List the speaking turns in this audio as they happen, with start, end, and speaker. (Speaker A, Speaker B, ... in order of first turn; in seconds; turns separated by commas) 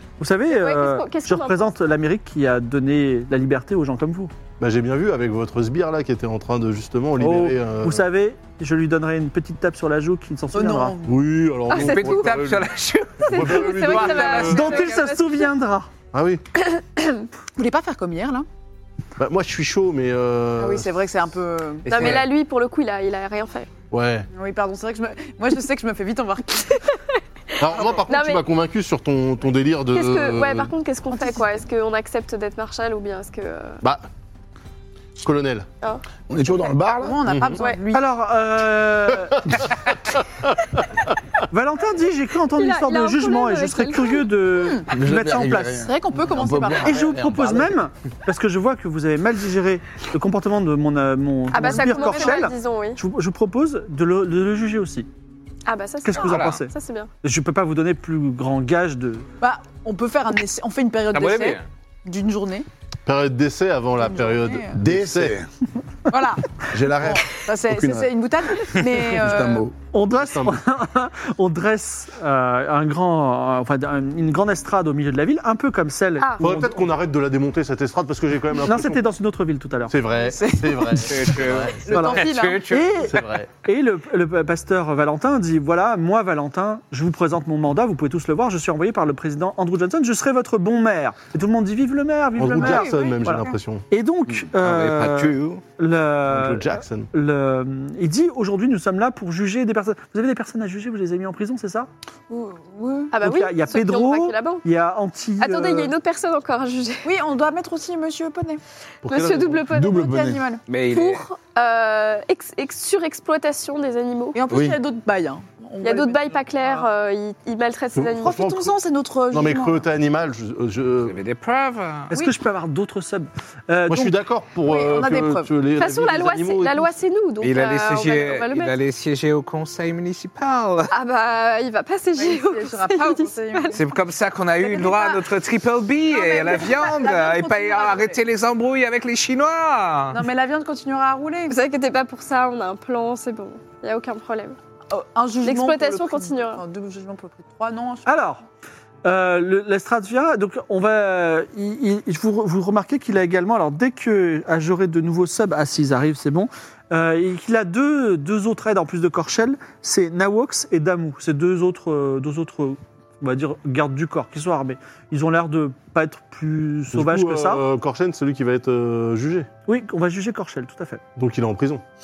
Speaker A: 0.2-4.3, Speaker B: 0.5-1.7, Speaker C: 4.6-8.0, Speaker A: 7.2-10.9, Speaker D: 10.5-11.2, Speaker C: 11.0-12.7, Speaker B: 11.7-12.3, Speaker E: 11.7-15.1, Speaker C: 13.2-14.7, Speaker B: 13.2-15.5, Speaker A: 14.4-15.9, Speaker C: 16.1-16.4, Speaker B: 16.6-17.2, Speaker D: 17.6-18.5, Speaker C: 19.2-20.9, Speaker D: 20.6-22.2, Speaker B: 21.9-23.7, Speaker C: 21.9-22.2, Speaker C: 23.9-24.3, Speaker D: 24.3-26.8, Speaker C: 27.6-30.7, Speaker B: 28.1-28.4, Speaker B: 29.9-33.8, Speaker D: 31.1-31.5, Speaker C: 35.2-35.7, Speaker F: 36.3-37.2, Speaker D: 37.0-38.1, Speaker C: 37.3-37.6, Speaker A: 37.9-39.6, Speaker C: 39.5-40.2, Speaker A: 41.5-45.9, Speaker B: 42.5-44.3, Speaker D: 44.6-44.9, Speaker F: 44.9-47.8, Speaker D: 45.8-47.1, Speaker A: 46.8-55.1, Speaker B: 51.5-53.0, Speaker D: 51.6-52.4, Speaker B: 55.6-57.1, Speaker A: 56.0-56.7, Speaker E: 56.1-56.6, Speaker A: 57.2-59.2, Speaker D: 59.4-62.7, Speaker E: 61.1-61.6, Speaker C: 63.0-65.4, Speaker D: 64.0-64.8, Speaker F: 64.8-65.5, Speaker D: 66.1-69.6, Speaker F: 66.7-68.1, Speaker F: 68.8-69.7, Speaker A: 69.9-76.8, Speaker C: 70.2-70.6, Speaker C: 76.4-79.0, Speaker A: 78.7-79.9, Speaker C: 79.9-81.8, Speaker D: 80.2-82.8, Speaker E: 81.0-83.1, Speaker A: 81.9-101.9, Speaker C: 83.1-83.5, Speaker C: 92.4-93.8, Speaker D: 92.5-93.6, Speaker E: 94.4-95.6, Speaker C: 96.3-97.1, Speaker D: 102.3-103.1, Speaker B: 103.1-104.6, Speaker A: 103.2-105.9, Speaker B: 105.4-107.1, Speaker D: 107.0-108.6, Speaker C: 109.0-109.7, Speaker B: 109.0-110.0, Speaker F: 109.7-110.4, Speaker D: 109.7-110.6, Speaker E: 110.7-111.2, Speaker B: 110.9-114.4, Speaker D: 114.3-116.9, Speaker F: 114.5-114.8, Speaker B: 115.8-118.4, Speaker C: 117.9-118.8, Speaker D: 118.2-119.8, Speaker C: 119.3-121.2, Speaker E: 121.0-122.1, Speaker A: 122.1-124.1, Speaker C: 123.9-126.9, Speaker D: 124.6-125.5, Speaker B: 125.8-128.7, Speaker E: 127.4-130.9, Speaker B: 130.9-133.8, Speaker D: 132.2-133.8, Speaker E: 133.7-140.2, Speaker D: 134.6-135.2, Speaker D: 136.1-138.2, Speaker D: 140.1-141.6, Speaker B: 141.5-144.6, Speaker D: 144.9-148.1, Speaker B: 145.4-146.6, Speaker A: 148.1-148.4, Speaker A: 149.0-167.6, Speaker C: 166.9-169.5, Speaker A: 169.7-171.0, Speaker C: 171.2-171.8